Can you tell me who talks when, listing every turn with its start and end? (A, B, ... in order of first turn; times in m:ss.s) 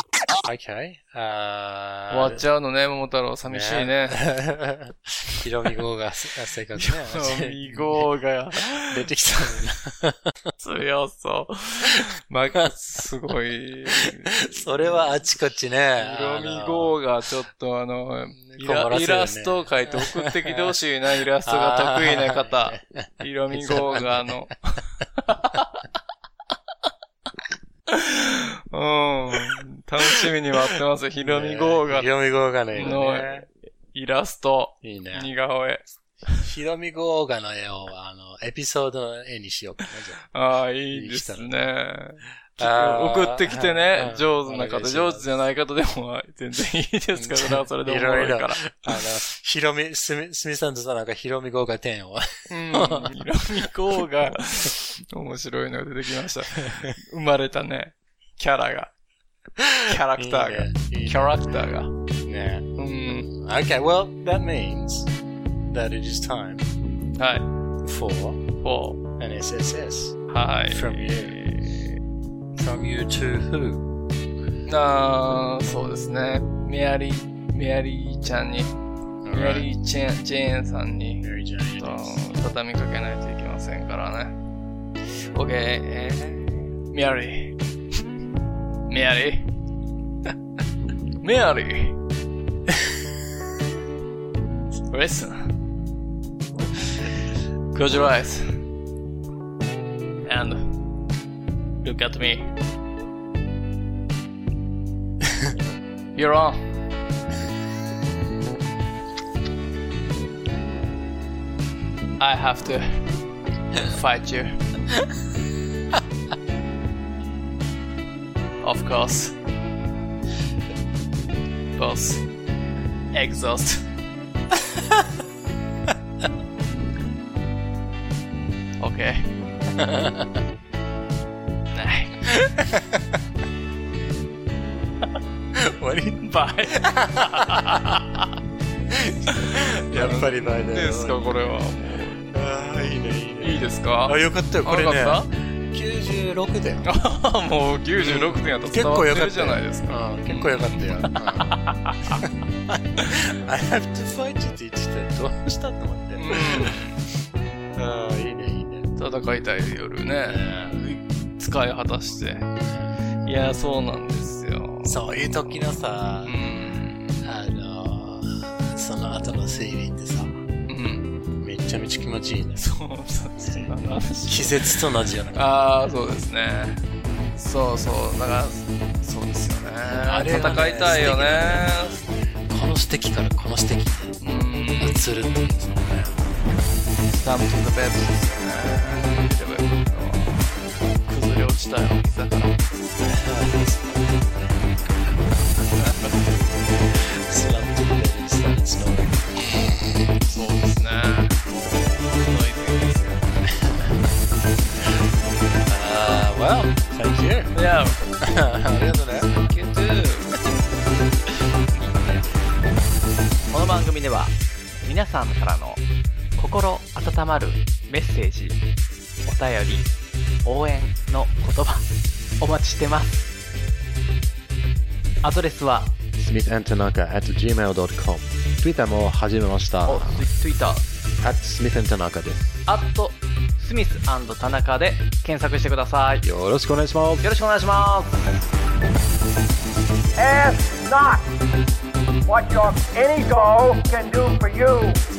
0:00.4-0:02.4 A
0:02.1-0:04.2 B
0:03.5-0:08.1 A
0:06.8-0:09.1 B
0:08.7-0:10.5 A
0:10.6-0:15.2 B
0:13.9-0:17.0 A
0:16.0-0:25.8 B
0:18.3-0:20.8 A
0:21.5-0:24.4 A
0:27.9-0:32.1 B
0:29.3-0:30.3 A
0:31.2-0:33.5 A
0:32.7-0:36.5 B
0:34.8-0:35.3 A
0:36.4-0:40.2 A
0:40.3-0:49.1 B
0:40.9-0:41.5 A
0:42.6-0:45.3 A
0:47.2-0:54.0 A
0:52.5-0:58.9 B
0:56.6-0:56.9 A
0:59.6-1:01.4 A
0:59.9-1:01.9 B
1:02.2-1:02.7 A
1:02.8-1:03.3 B
1:03.2-1:05.1 A
1:05.7-1:06.7 A
1:07.2-1:07.5 B
1:07.8-1:08.4 A
1:08.6-1:09.0 B
1:09.2-1:11.4 A
1:10.3-1:12.0 B
1:12.5-1:13.9 A
1:14.6-1:18.7 B
1:19.2-1:19.7 A
1:19.3-1:21.2 B
1:21.2-1:22.4 A
1:21.8-1:24.4 B
1:25.3-1:27.6 B
1:28.9-1:29.5 B
1:31.2-1:32.0 B
1:34.9-1:35.5 B
1:37.7-1:38.6 B
1:40.2-1:40.8 B
1:41.8-1:42.5 B
1:46.2-1:46.7 B
1:52.2-1:53.2 B
1:53.8-1:54.6 B
1:58.6-1:59.4 B
2:01.8-2:02.2 B
2:03.1-2:03.8 B
2:08.8-2:09.3 B
2:09.8-2:10.4 A
2:11.7-2:12.3 B
2:12.3-2:13.2 A
2:15.5-2:16.2 A
2:16.2-2:18.2 B
2:16.8-2:17.8 A
2:18.9-2:21.4 A
2:19.3-2:22.2 B
2:22.3-2:26.9 A
2:23.4-2:25.3 B
2:26.8-2:32.3 B
2:28.0-2:31.6 A
2:32.1-2:36.8 A
2:36.2-2:37.0 B
2:37.7-2:38.9 A
2:39.0-2:42.5 B
2:40.2-2:40.8 A
2:42.6-2:42.9 A
2:43.2-2:45.0 B
2:44.8-2:46.4 A
2:46.2-2:47.2 B
2:47.2-2:50.4 A
2:50.7-2:51.1 B
2:51.4-2:52.6 A
2:52.6-2:54.7 B
2:53.4-2:55.8 A
2:55.4-2:56.8 B
2:57.4-3:02.0 B
3:00.1-3:04.2 A
3:04.2-3:05.0 B
3:04.8-3:06.3 A
3:07.0-3:12.6 B
3:13.0-3:16.0 A
3:15.7-3:16.2 B
3:16.9-3:20.2 A
3:20.2-3:23.4 B
3:23.5-3:24.0 A
3:25.6-3:27.5 A
3:27.5-3:28.0 B
3:28.2-3:29.3 A
3:29.2-3:30.5 B
3:31.8-3:32.3 A
3:33.5-3:35.8 C
3:36.4-3:38.6 C
3:39.2-3:39.9 C
3:40.4-3:43.4 C
3:45.2-3:46.0 C
3:46.2-3:50.2 D
3:49.8-3:50.9 C
3:51.2-3:52.5 D
3:52.6-3:56.2 C
3:56.2-3:57.2 D
3:57.2-3:58.4 C
4:00.2-4:01.3 E
4:02.2-4:05.0 E